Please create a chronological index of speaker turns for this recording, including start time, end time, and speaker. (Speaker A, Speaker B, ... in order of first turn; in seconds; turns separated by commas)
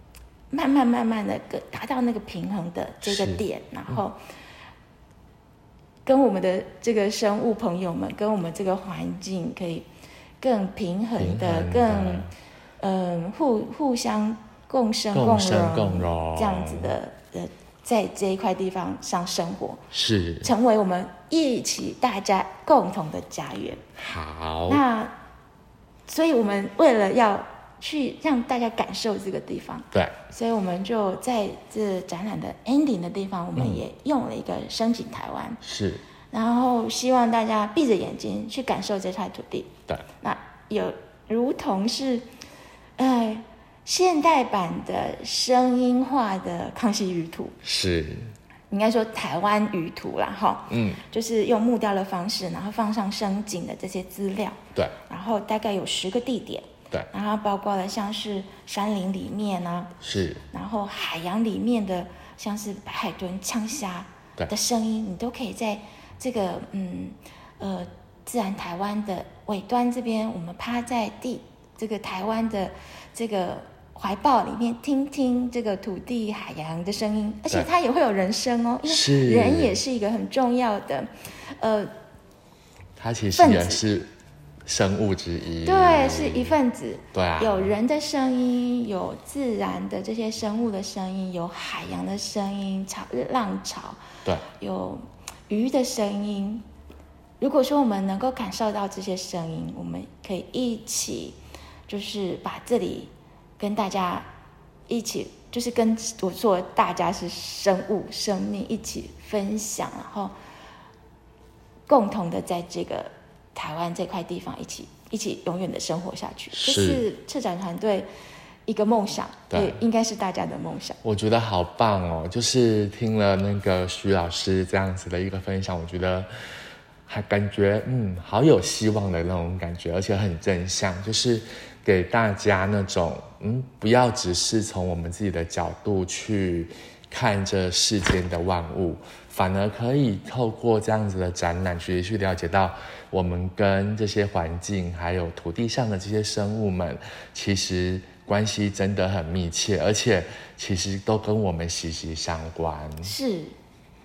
Speaker A: 0.5-4.2, Speaker B: 3.0-4.0, Speaker A: 6.1-9.9, Speaker A: 10.4-12.3, Speaker B: 11.2-12.3, Speaker A: 12.8-19.9, Speaker B: 15.1-16.9, Speaker B: 19.9-20.5, Speaker A: 20.4-23.8, Speaker B: 24.0-24.8, Speaker A: 24.7-25.1, Speaker A: 26.1-35.6, Speaker B: 29.9-30.2, Speaker B: 35.6-36.0, Speaker A: 36.3-42.3, Speaker A: 43.0-47.6, Speaker B: 47.6-48.3, Speaker A: 48.7-60.0, Speaker B: 50.7-51.0, Speaker B: 60.0-60.4, Speaker A: 60.5-81.9, Speaker B: 78.9-79.8, Speaker B: 83.0-84.1, Speaker A: 83.4-83.8, Speaker B: 84.7-86.5, Speaker A: 85.6-96.6, Speaker B: 87.1-87.7, Speaker A: 97.4-101.4, Speaker A: 101.9-104.3, Speaker A: 104.9-110.3, Speaker A: 111.9-118.1, Speaker B: 116.5-117.0, Speaker A: 118.7-121.0, Speaker B: 119.5-119.8, Speaker B: 121.0-126.3, Speaker B: 127.1-153.2, Speaker A: 153.0-153.6